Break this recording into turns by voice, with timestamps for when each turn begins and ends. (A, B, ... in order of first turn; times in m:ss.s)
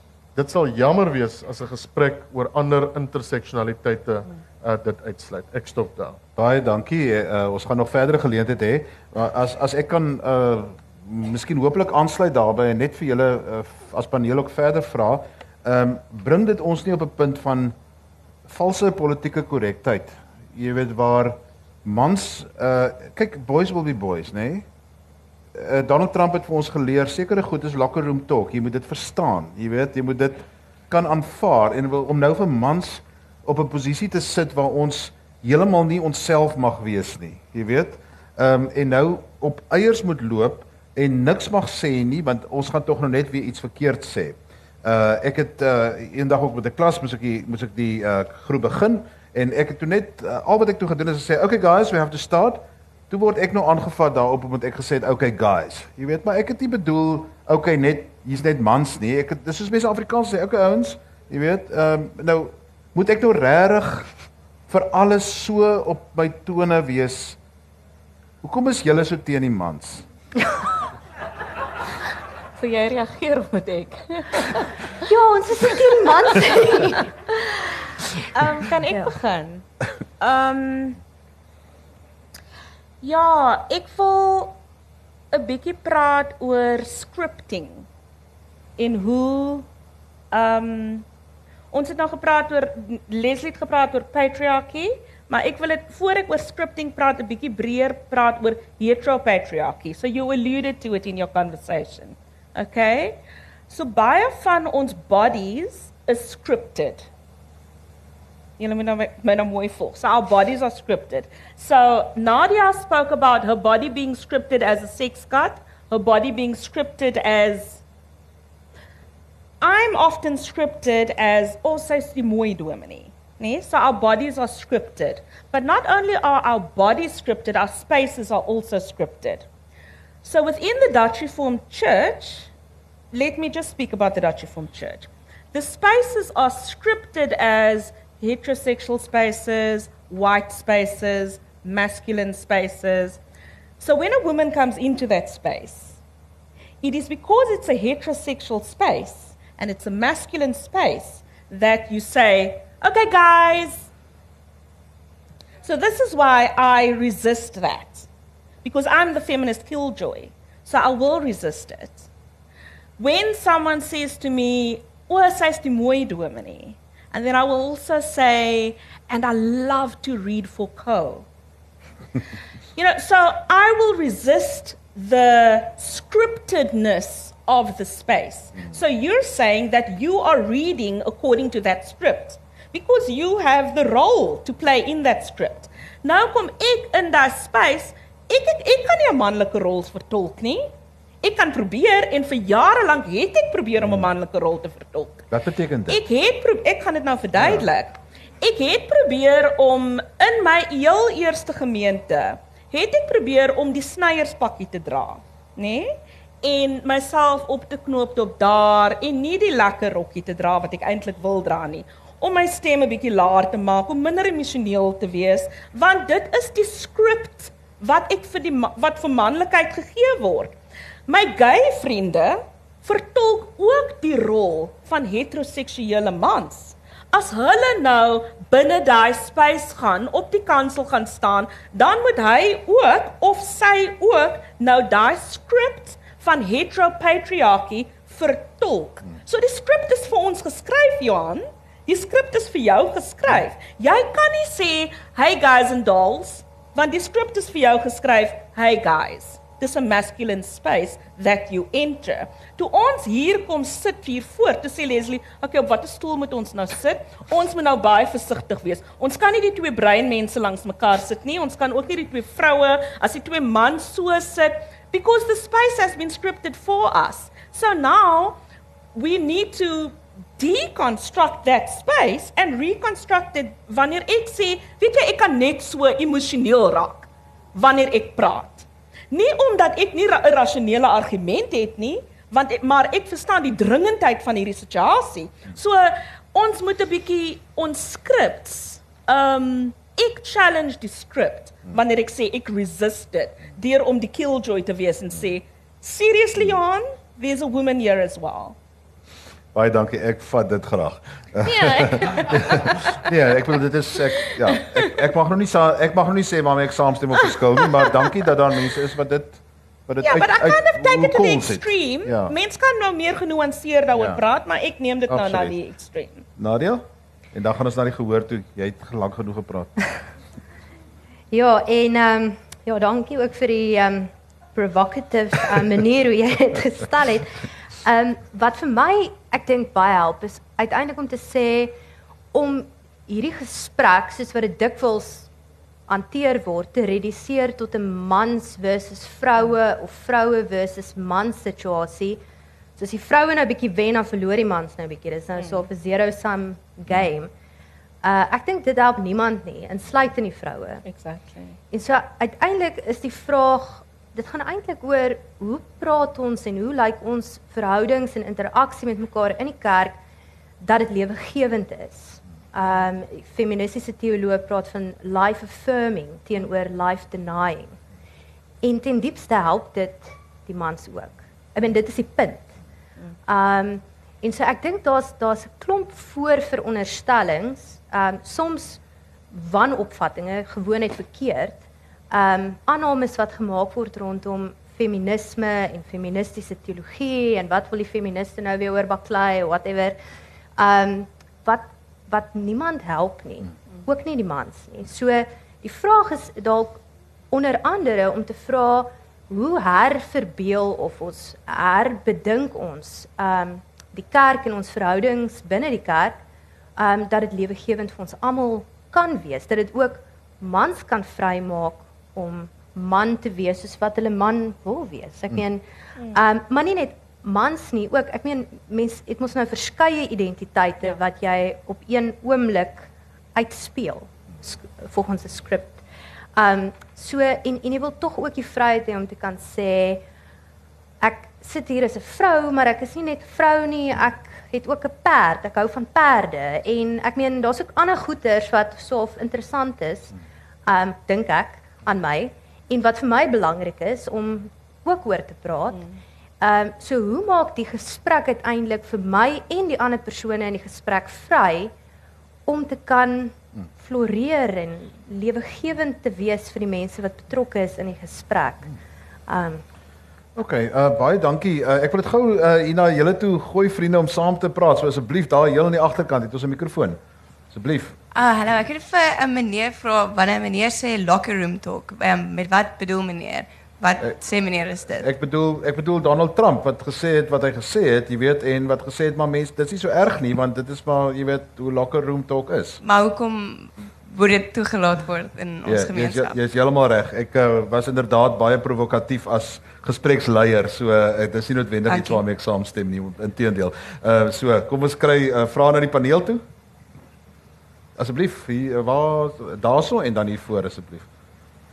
0:00.4-0:06.2 A
0:06.4-0:17.7 B
0:18.5-0:24.6 B
0:25.5-1:04.1 B
1:04.7-1:07.4 B
1:08.4-1:10.0 B
1:12.6-1:14.7 C
1:15.0-1:17.1 D
1:18.3-1:19.6 C
1:20.2-1:21.0 C
1:23.0-1:24.6 C
1:25.3-1:27.8 C
1:28.8-1:29.6 C
1:30.3-1:31.0 C
1:31.7-1:47.1 C
1:48.6-1:57.8 C
1:59.6-2:09.5 C
2:10.2-2:12.5 C
2:13.1-2:23.2 C
2:23.8-2:26.0 C
2:26.8-2:33.9 C
2:35.6-2:38.1 C
2:38.6-2:42.1 C
2:43.0-2:51.2 C
2:52.7-3:10.7 C
3:11.2-3:15.2 C
3:13.8-3:14.1 B
3:15.3-3:16.0 B
3:15.9-3:40.5 C
3:17.4-3:17.6 B
3:41.1-4:28.4 C
4:28.9-4:58.6 C
4:59.5-5:12.3 B
5:01.4-5:02.8 C
5:10.0-5:16.2 C
5:15.1-5:15.5 B
5:16.4-5:19.8 B
5:21.3-5:31.7 D
5:32.3-5:35.3 D
5:35.9-5:42.2 D
5:42.8-5:47.3 D
5:45.4-5:45.6 C
5:48.0-5:50.8 D
5:50.8-5:51.6 C
5:51.7-6:00.0 D
6:00.6-6:07.8 D
6:08.6-6:12.5 D
6:13.3-6:30.0 D
6:30.6-6:36.8 D
6:37.3-6:46.2 D
6:46.8-7:05.8 D
7:06.3-7:10.0 D
7:11.0-7:20.1 D
7:20.6-7:25.8 D
7:26.4-7:31.7 D
7:32.5-7:38.7 D
7:39.3-7:39.6 D
7:40.3-7:47.0 B
7:47.5-7:48.0 B
7:48.1-7:55.1 E
7:54.9-8:02.8 B
8:02.8-8:06.4 E
8:05.6-8:16.4 B
8:11.9-8:12.2 E
8:18.0-8:21.0 B